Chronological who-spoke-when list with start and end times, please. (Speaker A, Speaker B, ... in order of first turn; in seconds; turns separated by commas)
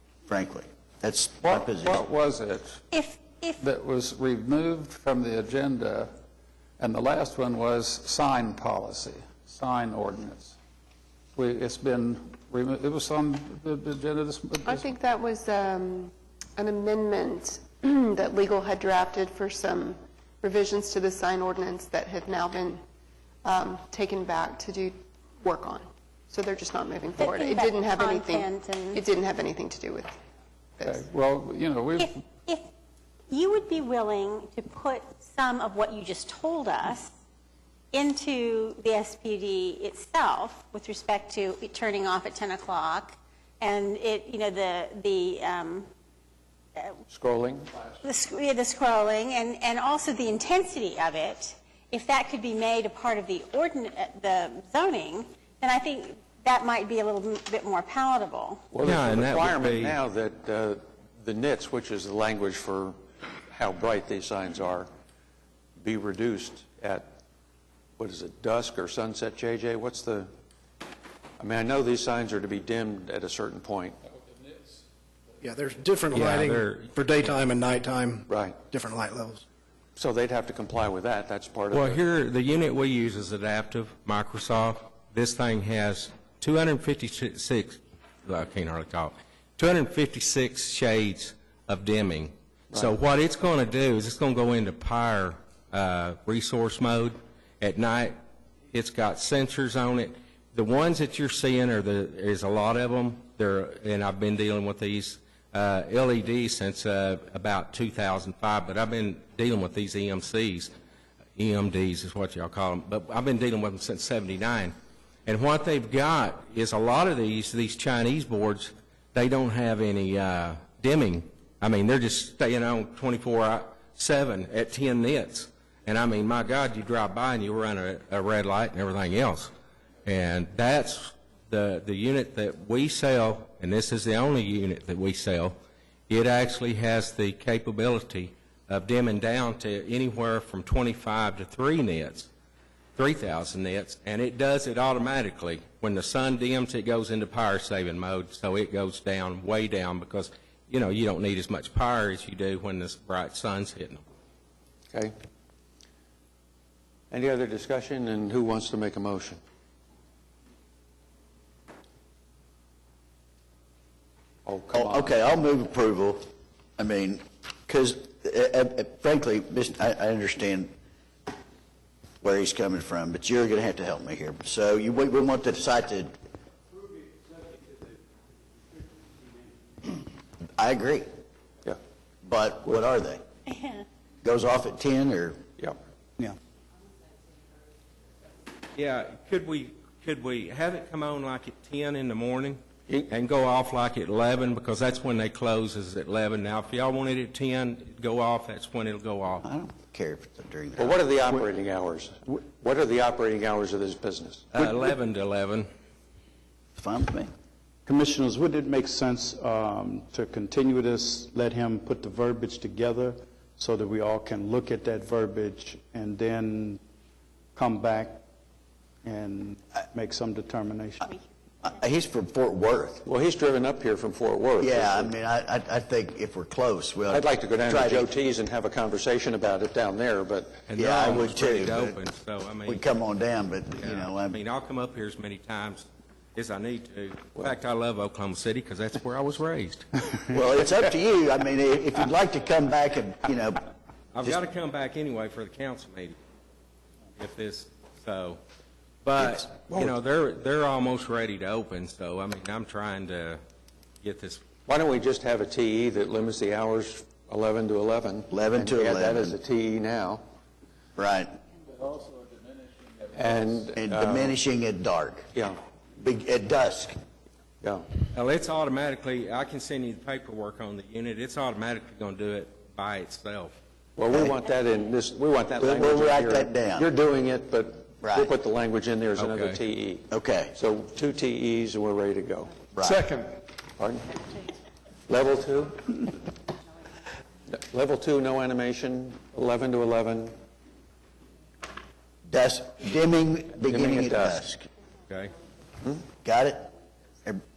Speaker A: 0.3-2.1, Speaker B: 1.5-2.7, Speaker C: 2.9-3.6, Speaker B: 3.8-6.1, Speaker B: 6.8-10.5, Speaker B: 11.4-14.5, Speaker D: 14.6-22.8, Speaker D: 23.4-30.2, Speaker C: 27.2-29.0, Speaker D: 30.8-31.1, Speaker B: 30.9-32.0, Speaker C: 31.9-32.7, Speaker C: 33.3-37.1, Speaker C: 37.9-45.9, Speaker E: 47.1-47.7, Speaker C: 48.0-58.7, Speaker E: 58.7-63.0, Speaker F: 58.8-60.0, Speaker E: 63.5-64.9, Speaker E: 65.8-67.1, Speaker E: 68.0-70.3, Speaker E: 71.4-74.0, Speaker G: 75.4-79.4, Speaker F: 76.1-76.9, Speaker E: 78.3-78.6, Speaker E: 80.0-82.0, Speaker F: 81.7-98.2, Speaker F: 98.7-110.7, Speaker F: 111.4-114.7, Speaker F: 115.3-129.5, Speaker F: 130.1-135.6, Speaker F: 136.1-142.3, Speaker F: 143.0-154.0, Speaker E: 157.1-159.4, Speaker E: 164.5-165.1, Speaker A: 164.7-166.2, Speaker A: 166.8-170.7, Speaker A: 172.2-176.1, Speaker A: 180.6-181.1, Speaker A: 182.2-183.2, Speaker A: 184.2-185.4, Speaker F: 188.8-199.4, Speaker A: 199.4-201.0, Speaker E: 200.8-204.6, Speaker F: 204.5-205.7, Speaker A: 206.8-207.3, Speaker H: 207.9-216.8, Speaker H: 217.6-218.2, Speaker H: 219.0-221.2, Speaker A: 221.6-223.0, Speaker E: 223.1-225.1, Speaker A: 224.6-228.1, Speaker E: 227.1-230.6, Speaker F: 230.7-232.8, Speaker A: 230.8-232.0, Speaker A: 232.7-234.4, Speaker F: 233.8-239.9, Speaker A: 240.3-243.6, Speaker F: 244.2-246.2, Speaker F: 247.2-248.4, Speaker F: 249.0-253.4, Speaker F: 254.0-254.4, Speaker E: 254.7-260.2, Speaker A: 258.3-259.4, Speaker A: 261.0-261.3, Speaker B: 261.9-262.3, Speaker E: 263.1-264.4, Speaker A: 263.7-265.3, Speaker A: 266.0-266.9, Speaker E: 267.6-267.9, Speaker F: 268.1-273.6, Speaker E: 274.0-282.6, Speaker A: 275.6-276.9, Speaker A: 278.0-278.3, Speaker F: 279.2-279.6, Speaker A: 280.1-280.5, Speaker A: 282.7-283.1, Speaker G: 282.9-283.3, Speaker E: 283.8-284.2, Speaker E: 285.1-286.1, Speaker E: 287.5-290.3, Speaker A: 292.3-294.7, Speaker E: 293.7-294.4, Speaker F: 295.1-295.3, Speaker A: 296.2-296.7